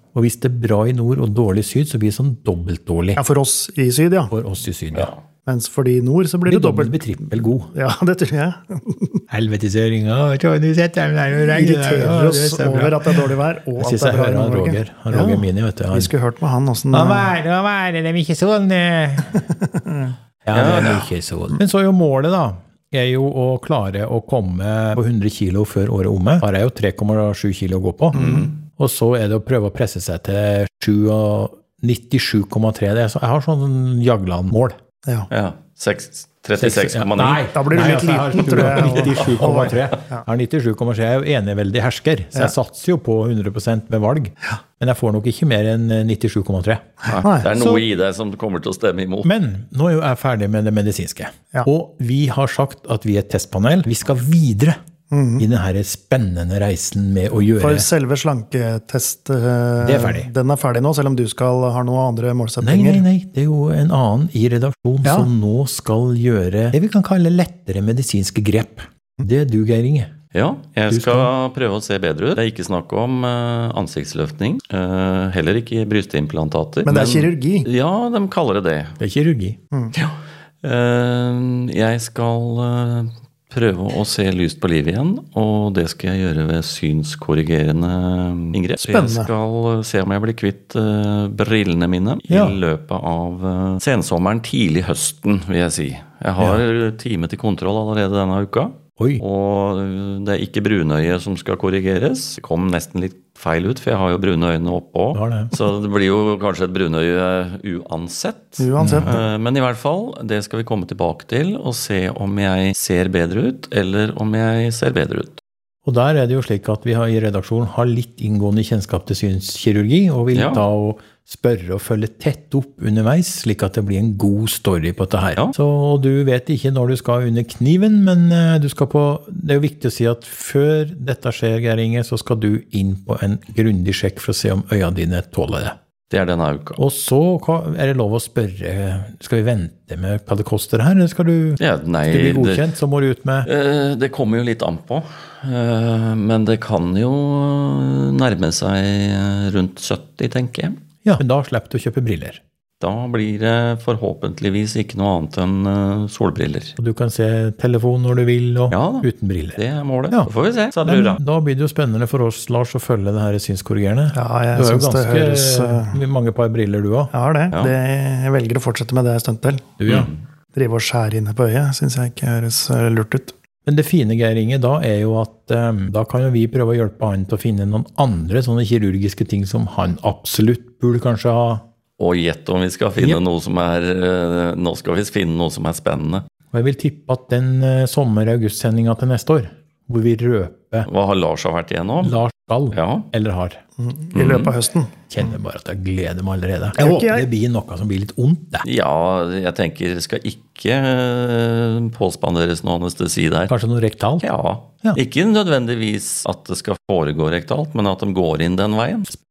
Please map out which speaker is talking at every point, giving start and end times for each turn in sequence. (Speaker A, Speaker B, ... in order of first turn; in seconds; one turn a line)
Speaker A: 0.1-3.2
Speaker B: 3.2-4.3
Speaker A: 4.3-5.1
Speaker C: 4.9-5.2
Speaker B: 5.5-9.2
Speaker A: 6.5-7.7
Speaker A: 9.3-16.1
Speaker B: 11.4-17.3
Speaker A: 16.9-19.4
Speaker B: 19.7-20.1
Speaker A: 20.4-34.8
Speaker C: 20.5-21.1
Speaker C: 28.1-28.5
Speaker B: 28.1-28.4
Speaker C: 35.3-37.6
Speaker A: 36.6-47.8
Speaker B: 37.5-40.2
Speaker C: 47.0-49.3
Speaker B: 47.2-47.5
Speaker A: 49.2-54.8
Speaker B: 55.1-55.4
Speaker A: 55.4-57.9
Speaker B: 57.6-63.0
Speaker A: 59.8-60.3
Speaker A: 62.6-70.1
Speaker B: 65.0-65.3
Speaker C: 70.3-79.0
Speaker A: 70.9-71.3
Speaker B: 76.8-77.7
Speaker A: 79.0-79.6
Speaker C: 79.9-115.4
Speaker B: 88.8-89.3
Speaker A: 92.3-92.6
Speaker A: 99.0-99.2
Speaker A: 105.1-105.5
Speaker B: 108.6-109.2
Speaker A: 108.8-109.1
Speaker A: 115.8-135.7
Speaker C: 120.3-120.6
Speaker C: 136.1-136.8
Speaker A: 136.8-143.5
Speaker C: 141.6-142.7
Speaker C: 143.4-150.8
Speaker A: 151.0-152.4
Speaker C: 152.8-156.8
Speaker A: 156.8-160.3
Speaker C: 158.7-161.2
Speaker A: 160.8-167.1
Speaker B: 164.1-166.0
Speaker B: 167.1-169.7
Speaker A: 169.8-170.1
Speaker C: 169.8-170.2
Speaker B: 170.5-173.3
Speaker A: 173.7-181.6
Speaker C: 182.0-186.2
Speaker A: 186.5-190.9
Speaker C: 190.8-192.2
Speaker A: 192.0-193.6
Speaker C: 192.7-193.1
Speaker B: 193.8-195.0
Speaker C: 194.1-194.5
Speaker A: 195.1-198.6
Speaker B: 196.8-197.3
Speaker C: 198.6-203.5
Speaker A: 203.5-204.2
Speaker C: 204.2-209.2